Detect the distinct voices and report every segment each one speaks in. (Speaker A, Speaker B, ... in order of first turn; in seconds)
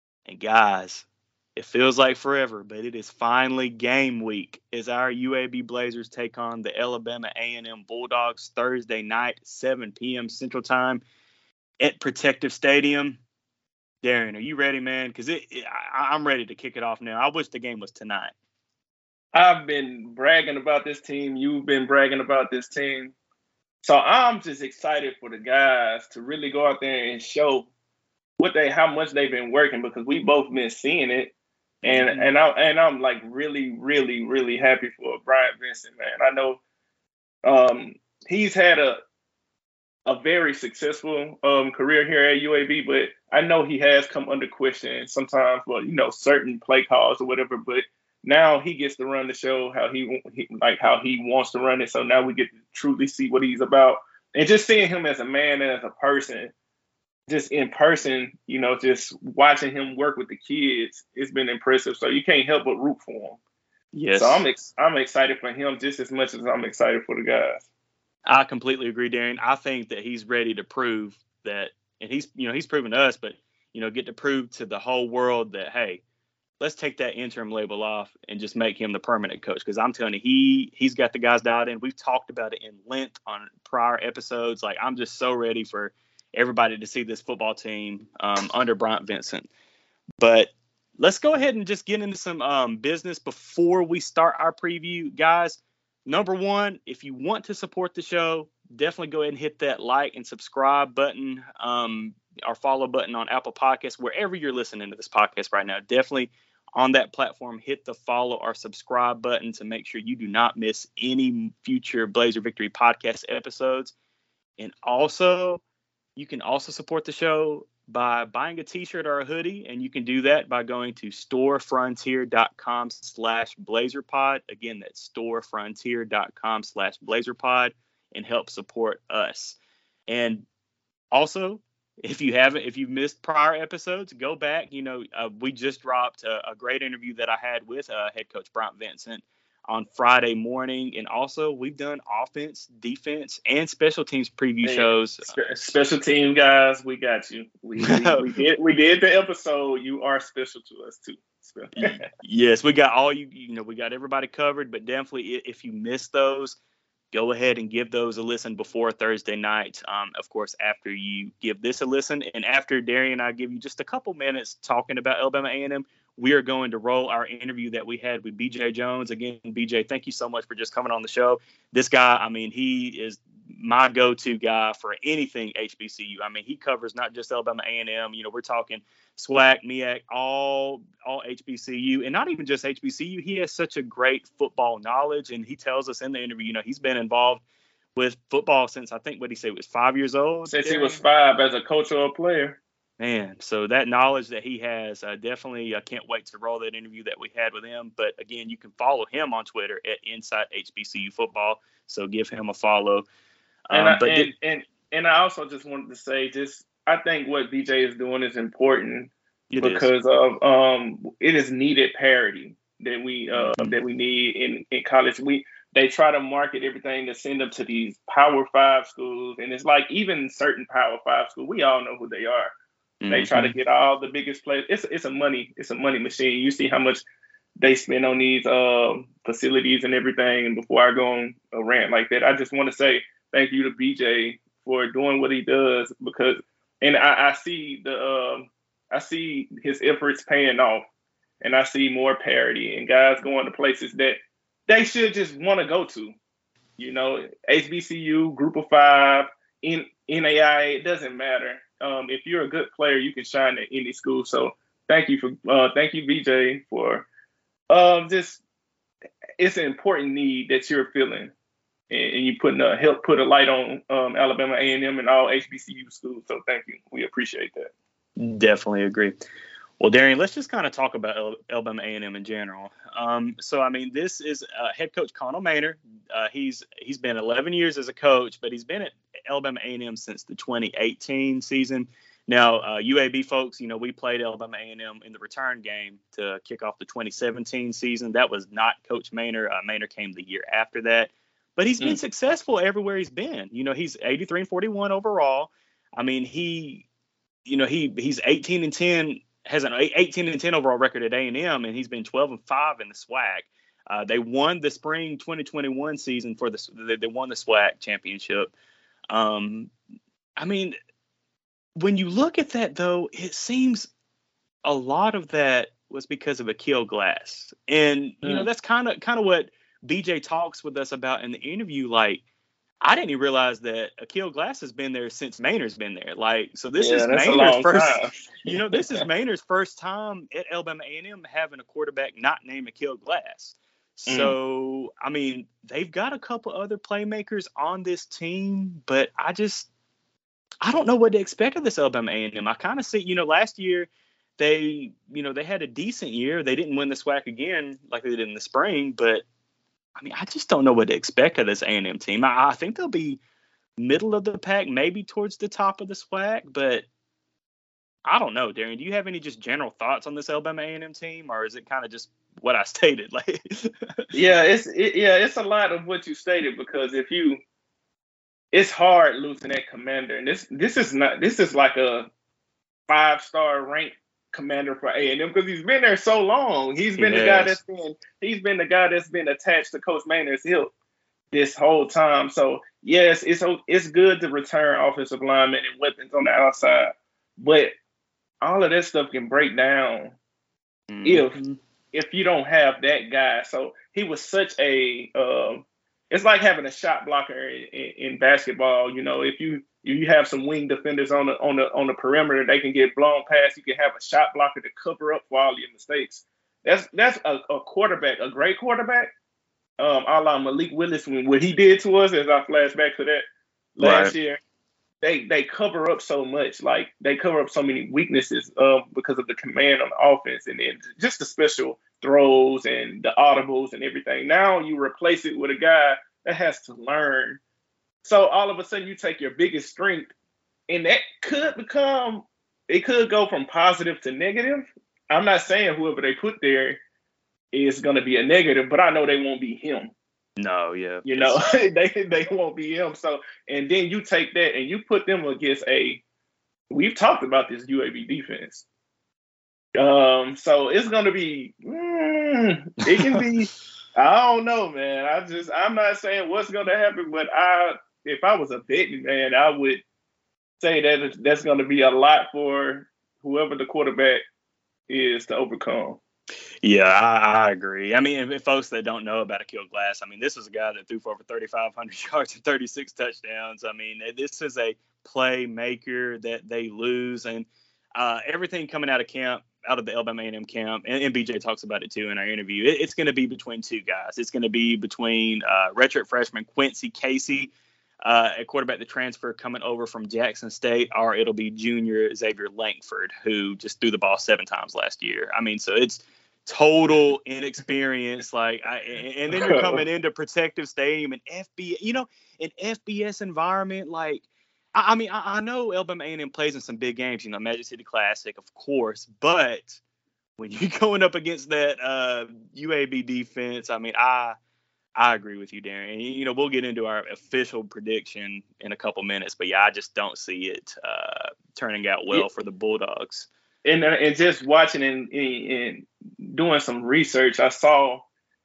Speaker A: 0.2-11.0, 11.8-13.2, 14.0-18.3, 31.8-32.3, 63.9-64.4, 68.2-76.0, 76.6-89.5, 90.2-113.9, 114.6-115.6, 116.2-129.6, 130.1-130.4, 131.1-145.3, 147.8-148.3, 151.7-156.6, 157.1-187.4, 187.9-191.0, 193.0-203.1, 203.7-204.3, 209.5-209.9, 213.3-213.8, 223.0-223.5, 268.2-269.2, 269.8-296.8, 297.4-308.5, 309.1-309.7, 310.4-310.8, 311.8-313.9, 314.6-322.2, 322.8-339.7, 340.6-349.2, 350.0-353.2, 353.8-356.9, 358.1-363.7, 377.0-377.6, 390.9-391.6, 413.8-414.1, 440.4-441.4, 452.9-453.2, 466.6-487.5, 488.0-509.8, 510.4-514.3, 515.0-523.3
Speaker B: 19.3-23.1, 23.8-27.7, 28.4-31.3, 31.9-36.6, 37.4-39.0, 40.0-56.5, 57.3-63.4, 64.1-67.7, 144.6-151.9, 190.5-192.6, 203.7-222.5, 223.1-227.0, 227.6-240.8, 241.4-246.1, 246.8-257.1, 257.7-258.4, 259.4-261.3, 261.9-267.7, 326.8-329.0, 334.1-334.4, 364.1-367.4, 368.5-372.1, 372.9-380.7, 381.3-387.7, 388.4-390.1, 391.0-391.4, 391.9-409.1, 409.8-413.2, 413.8-414.4, 415.0-427.4, 428.0-430.1, 430.7-436.8, 437.5-439.9, 441.1-446.0, 446.7-448.6, 449.7-459.8, 460.6-464.2, 464.9-466.0, 499.3-499.8, 523.6-528.0